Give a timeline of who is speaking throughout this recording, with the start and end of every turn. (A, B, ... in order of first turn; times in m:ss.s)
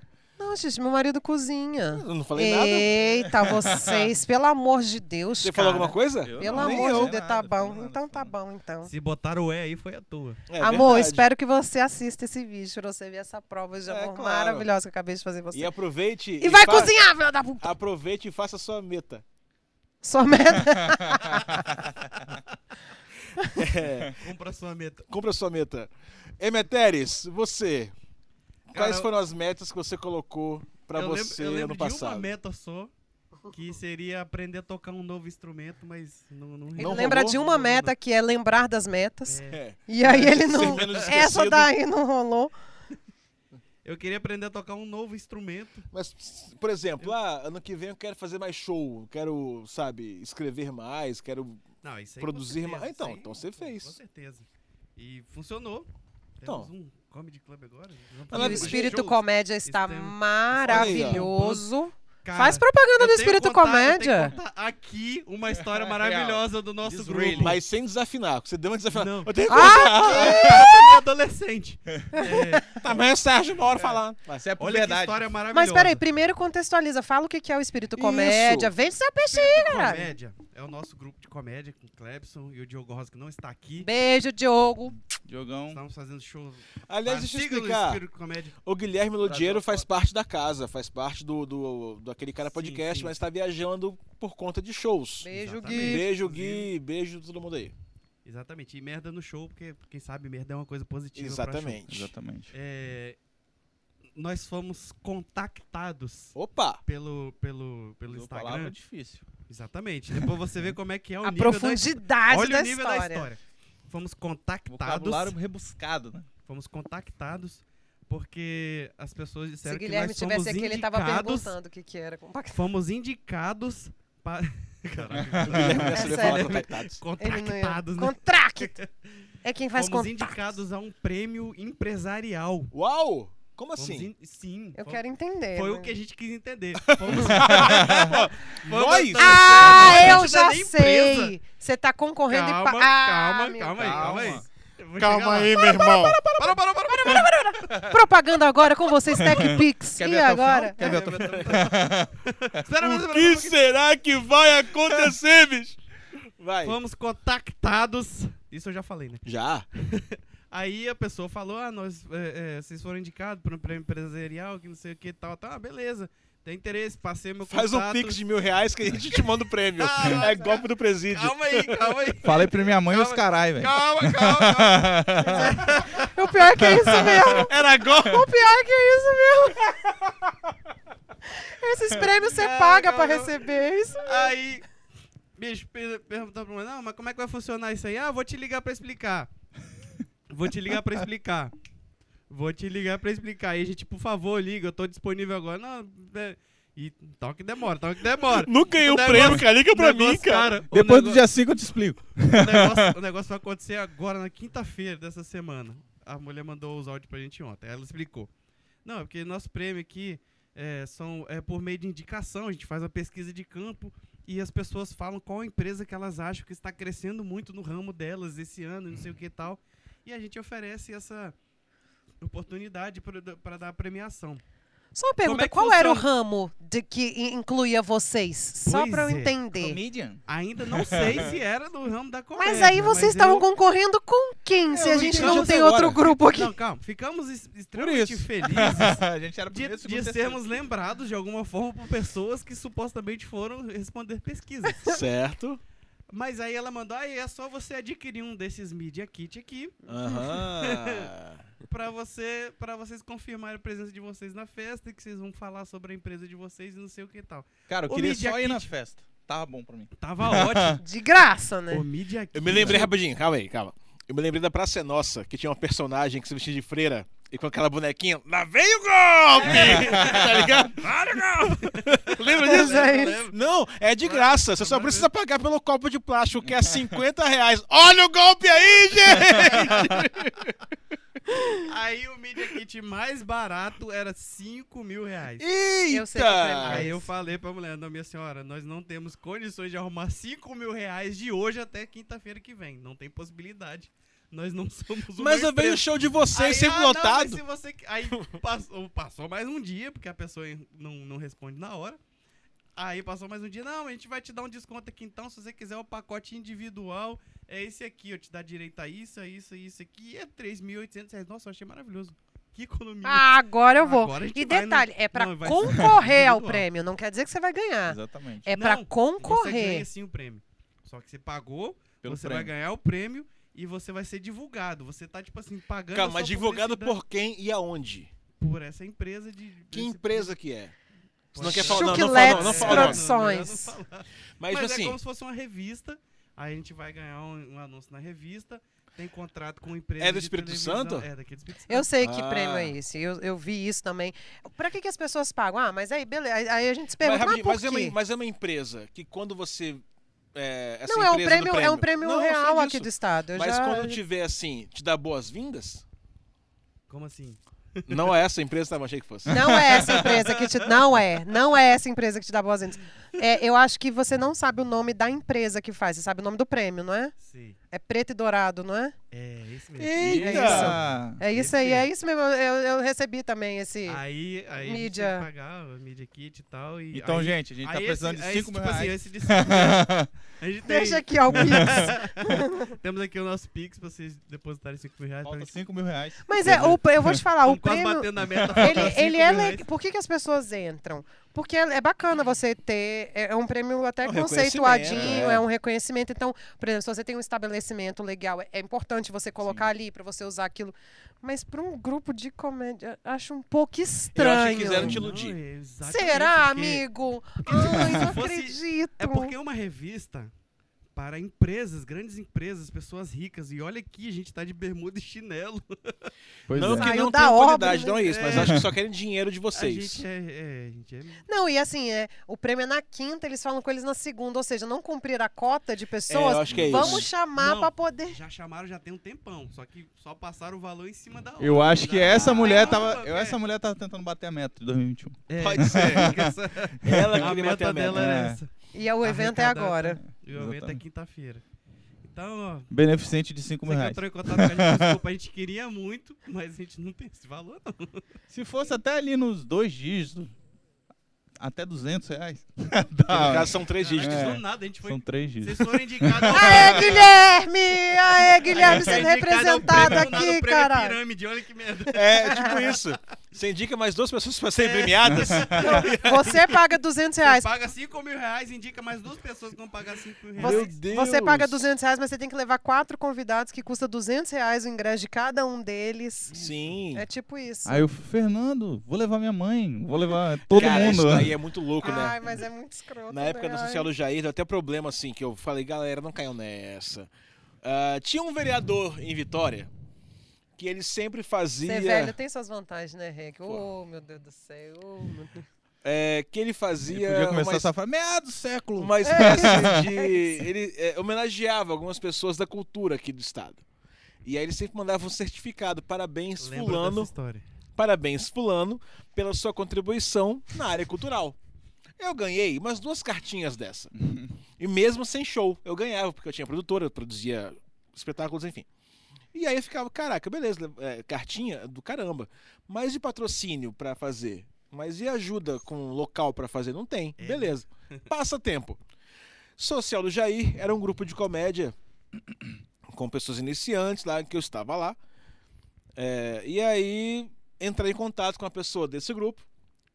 0:00.4-0:08.9 A
0:01.9-0:03.2 B
0:03.4-0:04.0 C
0:05.4-0:07.1 B
0:06.2-0:08.3 C
0:08.8-0:10.4 D
0:10.5-0:11.2 B
0:10.6-0:15.7 A
0:13.9-0:14.7 B
0:15.5-0:16.9 B
0:16.4-0:17.7 A
0:17.6-0:19.2 B
0:20.0-0:21.6 A
0:23.5-0:24.2 B
0:24.1-0:25.1 D
0:25.1-0:27.9 B
0:28.7-0:29.1 D
0:28.7-0:32.3 B
0:30.9-0:32.9 D
0:33.5-0:37.9 D
0:36.8-0:37.4 B
0:36.8-0:42.5 A
0:39.2-0:39.6 D
0:39.5-0:41.7 B
0:40.5-0:41.2 D
0:43.8-0:45.9 D
0:45.9-0:51.6 B
0:51.8-0:55.9 D
0:52.2-0:54.0 B
0:56.4-1:01.6 D
0:56.4-0:56.7 B
0:58.3-0:59.0 B
0:58.3-1:04.3 A
1:00.7-1:01.3 B
1:02.2-1:07.6 D
1:05.5-1:07.6 C
1:07.4-1:10.8 B
1:08.9-1:12.8 D
1:09.5-1:10.9 A
1:12.1-1:12.4 A
1:12.7-1:14.5 B
1:13.7-1:14.0 D
1:14.4-1:15.2 C
1:14.6-1:16.0 D
1:15.5-1:20.1 A
1:17.9-1:18.7 B
1:19.3-1:23.9 D
1:23.8-1:24.9 A
1:25.2-1:25.8 C
1:25.7-1:28.6 D
1:26.9-1:28.0 B
1:28.6-1:37.7 B
1:29.2-1:29.9 C
1:32.4-1:33.1 D
1:35.2-1:36.0 A
1:35.3-1:36.7 D
1:38.2-1:41.8 D
1:41.2-1:42.1 B
1:41.9-1:42.5 C
1:42.5-1:43.2 D
1:44.2-1:48.7 D
1:46.4-1:46.8 B
1:48.1-1:49.2 C
1:49.5-1:55.3 D
1:50.1-1:50.7 C
1:51.2-1:53.3 A
1:54.7-1:56.3 C
1:56.4-2:01.5 D
1:59.6-2:02.6 A
2:02.5-2:08.9 D
2:05.1-2:05.9 C
2:05.4-2:07.0 B
2:05.8-2:06.6 A
2:07.2-2:08.8 A
2:09.4-2:10.4 A
2:09.8-2:12.7 D
2:12.7-2:14.1 B
2:13.8-2:15.0 D
2:14.7-2:15.9 A
2:15.5-2:21.3 D
2:16.9-2:20.2 B
2:17.4-2:18.2 C
2:19.2-2:24.4 A
2:22.3-2:25.7 D
2:23.8-2:24.4 C
2:25.0-2:26.3 B
2:25.6-2:25.9 A
2:26.0-2:26.4 C
2:26.4-2:27.7 D
2:26.9-2:31.0 A
2:29.2-2:32.2 C
2:30.8-2:33.6 D
2:32.8-2:35.8 B
2:36.4-2:36.8 B
2:36.6-2:39.2 D
2:39.2-2:39.7 B
2:39.8-2:48.2 D
2:47.4-2:51.8 B
2:49.1-2:56.1 D
2:52.2-2:55.7 C
2:55.2-2:59.8 A
2:56.6-2:57.4 C
2:57.3-2:58.3 D
2:57.6-2:57.9 B
3:01.2-3:04.3 A
3:02.0-3:04.6 D
3:05.4-3:09.3 D
3:10.3-3:11.5 D
3:12.3-3:21.2 D
3:18.3-3:20.5 B
3:19.1-3:19.4 C
3:20.7-3:22.9 C
3:22.2-3:28.3 D
3:28.8-3:41.3 D
3:42.2-3:44.4 D
3:44.9-3:49.8 A
3:45.2-3:46.1 D
3:48.6-3:49.3 D
3:49.5-3:51.3 C
3:50.3-3:53.4 D
3:52.4-3:56.5 A
3:54.7-3:56.0 B
3:54.8-3:55.9 C
3:55.0-3:55.5 D
3:56.3-4:05.0 D
3:57.7-4:00.4 C
4:04.8-4:05.6 B
4:06.1-4:11.1 D
4:09.9-4:11.4 B
4:09.9-4:10.3 A
4:11.6-4:18.7 D
4:17.7-4:20.8 C
4:20.0-4:20.8 D
4:20.8-4:21.8 A
4:21.7-4:22.9 D
4:22.3-4:40.5 B
4:22.5-4:22.8 C
4:29.4-4:30.5 D
4:29.8-4:30.5 C
4:31.6-4:33.4 D
4:32.4-4:33.2 A
4:34.0-4:35.1 D
4:36.4-4:37.0 C
4:39.1-4:40.0 D
4:41.6-4:45.4 D
4:45.4-4:46.9 B
4:45.9-4:47.1 A
4:46.6-5:02.0 D
4:55.2-4:57.4 B
5:02.8-5:16.6 D
5:13.0-5:19.8 A
5:17.9-5:18.4 C
5:18.5-5:27.0 D
5:22.0-5:22.5 C
5:25.9-5:28.1 B
5:28.4-5:30.3 D
5:29.7-5:30.7 B
5:31.3-5:41.9 D
5:31.4-5:33.0 B
5:31.4-5:33.8 A
5:34.4-5:35.0 B
5:40.0-5:41.1 B
5:41.7-5:48.0 A
5:42.0-5:42.8 B
5:47.0-5:49.8 B
5:50.3-5:55.8 B
5:50.9-5:54.0 A
5:56.9-5:58.2 D
5:57.9-5:59.9 B
5:59.2-6:07.1 A
5:59.9-6:00.4 D
6:07.2-6:07.6 D
6:07.7-6:08.9 A
6:09.1-6:11.9 D
6:09.8-6:10.8 B
6:10.0-6:11.2 C
6:10.0-6:14.0 A
6:13.8-6:25.6 D
6:14.6-6:15.3 A
6:16.9-6:20.1 C
6:20.7-6:22.7 A
6:21.3-6:21.9 C
6:25.2-6:27.2 C
6:26.3-6:45.0 A
6:27.4-6:29.6 D
6:28.3-6:28.9 C
6:34.0-6:35.4 B
6:34.9-6:35.2 C
6:39.4-6:39.7 C
6:44.1-6:45.4 B
6:44.7-6:46.8 D
6:45.8-6:49.3 A
6:47.4-6:50.3 D
6:47.6-6:48.1 C
6:50.9-6:56.1 D
6:56.5-6:56.9 C
6:56.5-7:00.0 B
6:56.6-6:58.1 A
6:58.0-6:58.7 D
6:58.4-6:58.6 C
6:59.5-7:01.2 D
7:01.3-7:08.2 A
7:06.1-7:07.1 B
7:06.5-7:07.0 C
7:07.3-7:13.4 D
7:11.4-7:17.4 C
7:12.1-7:12.5 B
7:15.3-7:18.5 D
7:15.4-7:16.1 B
7:16.8-7:18.1 B
7:17.9-7:18.4 C
7:18.7-7:20.0 A
7:19.0-7:21.4 D
7:20.3-7:20.8 C
7:22.0-7:22.7 D
7:22.7-7:25.0 C
7:23.6-7:28.0 D
7:28.3-7:30.3 C
7:31.4-7:37.0 C
7:33.1-7:34.4 B
7:33.7-7:37.2 D
7:36.3-7:41.0 A
7:38.5-7:42.8 D
7:38.7-7:39.0 C
7:41.9-7:46.4 B
7:42.2-7:42.5 A
7:44.6-7:46.3 D
7:45.1-7:45.6 C
7:45.6-7:47.5 A
7:47.2-7:50.7 D
7:50.4-7:51.6 B
7:50.4-7:56.4 A
7:56.3-7:56.8 D
7:56.3-7:57.0 B
7:56.9-7:57.8 A
7:57.6-8:01.4 C
8:00.4-8:02.3 B
8:00.5-8:01.2 A
8:01.8-8:03.9 A
8:03.1-8:07.1 B
8:07.6-8:09.7 B
8:10.6-8:12.1 B
8:11.6-8:15.4 A
8:15.8-8:17.7 B
8:16.9-8:19.9 C
8:18.8-8:23.6 B
8:19.0-8:20.4 A
8:24.2-8:27.1 B
8:26.4-8:27.4 D
8:27.8-8:31.4 B
8:32.0-8:33.9 B
8:34.0-8:34.4 C
8:34.6-8:38.7 B
8:39.3-8:48.8 B
8:47.2-8:48.0 D
8:49.6-8:51.7 B
8:52.9-8:55.0 B
8:56.0-8:59.4 B